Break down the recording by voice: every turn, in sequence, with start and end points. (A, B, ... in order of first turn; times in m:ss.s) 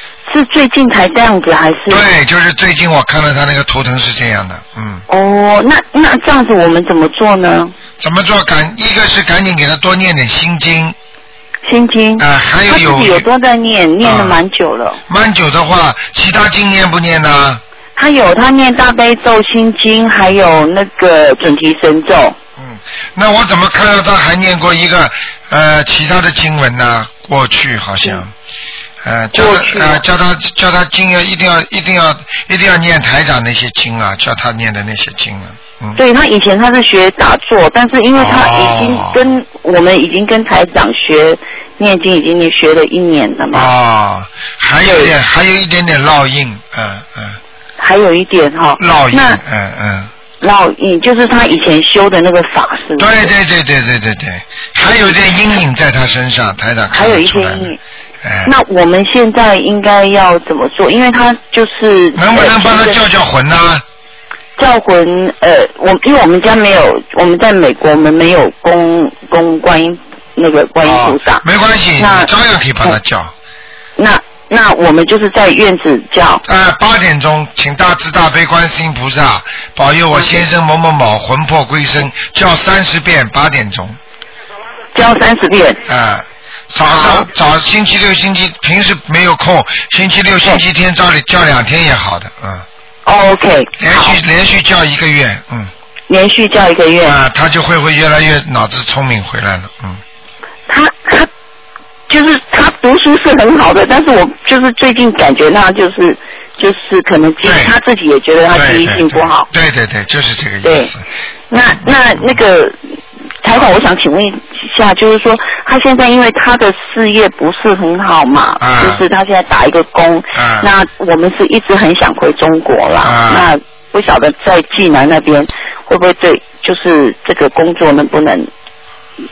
0:00.3-0:02.0 A
0:01.9-0:05.0 B
0:05.1-0:07.7 A
0:08.0-0:11.0 B
0:11.7-0:15.0 A
0:12.2-0:13.2 B
0:14.0-0:14.4 B
0:15.1-0:17.6 B
0:18.0-0:22.4 A
0:22.6-0:28.3 B
0:29.0-0:36.0 B
0:29.4-0:30.0 A
0:36.0-0:43.7 A
0:38.2-0:39.2 B
0:43.5-0:47.4 B
0:44.8-0:45.1 A
0:47.8-0:49.4 A
0:48.8-0:50.1 B
0:50.4-0:53.3 A
0:53.0-0:58.5 B
0:56.9-0:57.8 A
0:58.4-1:03.0 A
1:02.2-1:03.8 B
1:04.6-1:11.4 A
1:10.8-1:13.3 B
1:12.0-1:12.3 A
1:14.0-1:16.4 A
1:16.4-1:24.0 B
1:20.1-1:20.4 A
1:25.0-1:25.8 A
1:25.9-1:32.7 B
1:26.8-1:27.3 A
1:33.1-1:34.2 A
1:33.8-1:35.7 B
1:36.1-1:37.2 A
1:37.0-1:40.0 B
1:40.7-1:41.3 A
1:42.1-1:49.5 A
1:47.4-1:47.8 B
1:48.5-1:51.0 B
1:50.6-1:50.9 A
1:51.5-2:08.5 A
1:51.8-1:52.4 B
1:58.6-1:59.0 B
2:00.4-2:00.7 B
2:03.0-2:03.5 B